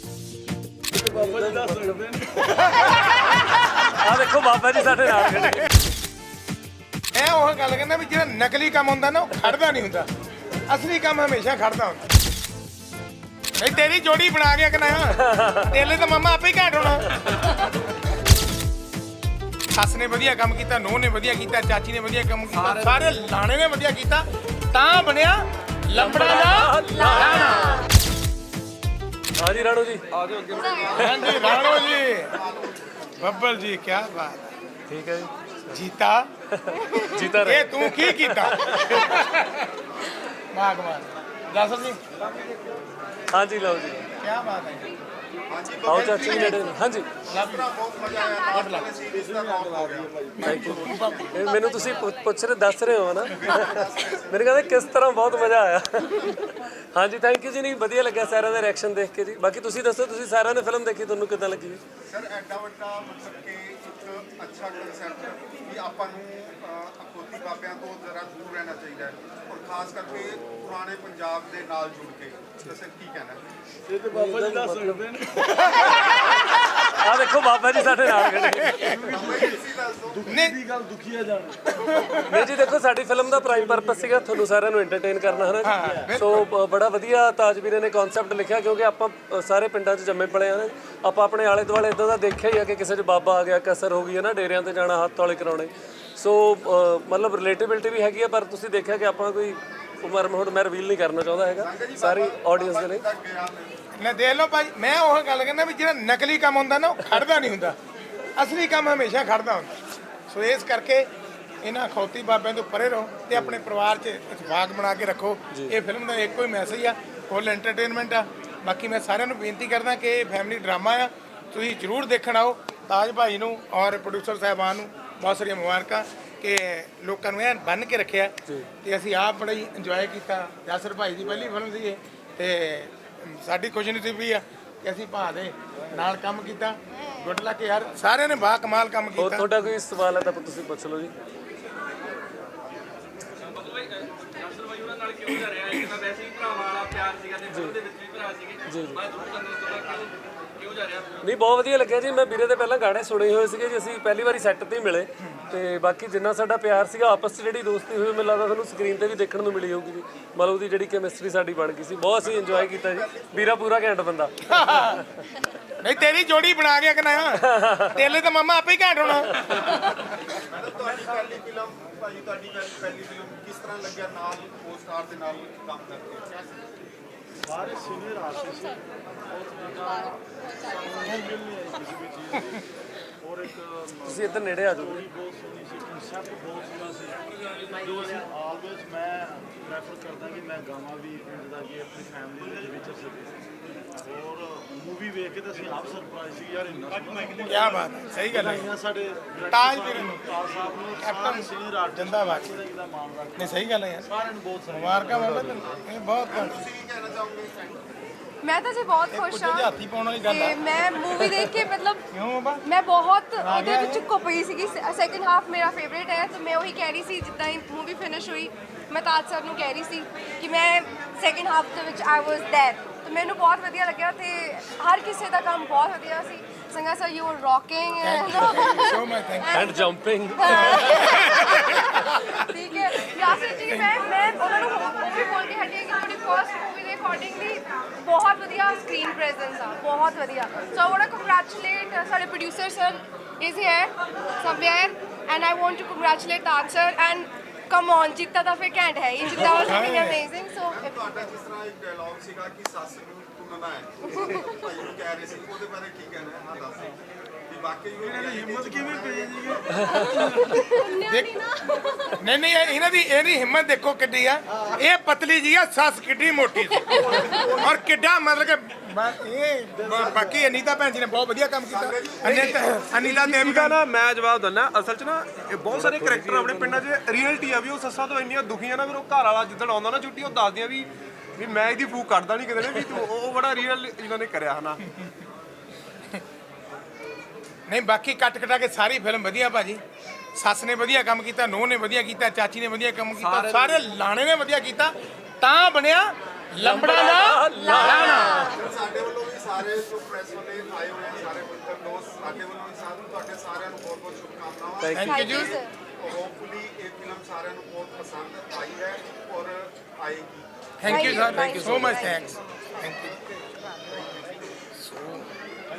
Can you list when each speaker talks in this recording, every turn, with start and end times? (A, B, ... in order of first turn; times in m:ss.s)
0:00.9-0:02.5 A
0:02.7-0:03.3 B
0:03.0-0:05.7 C
0:07.1-0:10.1 B
0:10.7-0:12.1 B
0:13.6-0:17.1 B
0:15.2-0:15.7 C
0:19.7-0:27.8 B
0:22.5-0:23.0 D
0:26.0-0:27.7 C
0:26.9-0:27.9 E
0:29.4-0:30.0 C
0:30.1-0:30.8 D
0:30.5-0:33.0 F
0:30.5-0:31.8 E
0:31.0-0:32.4 B
0:33.2-0:34.4 B
0:34.9-0:35.8 C
0:35.7-0:36.3 B
0:36.5-0:39.0 C
0:37.4-0:39.7 B
0:40.5-0:42.0 B
0:43.3-0:44.1 C
0:44.2-0:45.0 B
0:45.5-0:51.4 F
0:45.8-0:47.1 C
0:46.1-0:46.6 B
0:47.3-0:47.7 B
0:48.0-0:48.9 E
0:48.5-0:48.9 B
0:49.1-0:50.5 A
0:50.4-0:51.3 B
0:50.4-1:01.8 C
0:53.3-0:54.8 F
1:02.1-1:13.4 F
1:13.9-1:16.0 A
1:14.1-1:19.2 C
1:18.1-1:19.0 B
1:18.9-1:22.0 A
1:19.1-1:20.4 F
1:20.3-1:20.6 B
1:21.8-1:22.5 B
1:22.2-1:43.0 C
1:23.3-1:24.2 A
1:25.6-1:26.5 B
1:41.6-1:43.8 F
1:44.0-1:47.8 B
1:48.4-1:49.7 B
1:50.3-1:51.1 B
1:51.6-2:19.5 B
1:53.3-1:53.7 C
2:19.2-2:21.1 C
2:23.6-2:27.3 D
2:24.5-2:28.6 G
2:27.5-2:27.8 C
2:28.7-2:29.0 C
2:29.1-2:30.1 D
2:30.6-2:30.9 G
2:30.6-2:31.1 D
2:31.2-2:45.0 C
2:42.2-2:43.7 F
2:44.5-2:45.0 B
2:45.8-2:49.7 B
2:47.4-2:48.0 C
2:49.4-2:49.8 C
2:50.5-2:56.5 F
2:57.4-3:02.6 A
3:01.0-3:01.3 B
3:03.2-3:13.4 A
3:04.0-3:05.0 C
3:13.9-3:23.5 A
3:17.4-3:18.7 B
3:19.5-3:20.3 B
3:21.0-3:22.5 B
3:23.4-3:24.1 B
3:24.0-3:25.4 A
3:24.7-3:26.6 B
3:25.5-3:27.9 F
3:28.4-3:29.7 E
3:29.1-3:30.6 B
3:30.3-3:32.1 E
3:32.1-3:32.6 B
3:32.6-3:49.8 E
3:33.4-3:34.0 B
3:48.0-3:49.7 B
3:49.5-3:51.1 C
3:50.4-4:11.3 E
3:50.5-3:52.3 B
4:09.4-4:10.2 B
4:10.6-4:20.2 F
4:14.2-4:14.5 E
4:18.0-4:20.8 A
4:19.8-4:22.2 E
4:21.1-4:21.4 B
4:22.2-4:33.8 B
4:26.9-4:27.5 E
4:29.8-4:30.5 A
4:31.7-4:32.7 F
4:33.0-4:44.8 D
4:35.7-4:36.8 C
4:47.7-4:49.8 B
4:50.4-4:58.5 B
4:53.2-4:53.8 D
4:56.6-4:58.6 C
4:57.5-4:58.7 E
4:58.4-5:10.5 F
5:04.8-5:05.2 C
5:04.9-5:05.6 B
5:05.0-5:05.7 E
5:10.8-5:13.2 B
5:10.9-5:12.2 C
5:10.9-5:12.4 E
5:13.9-5:14.4 F
5:14.8-5:15.3 B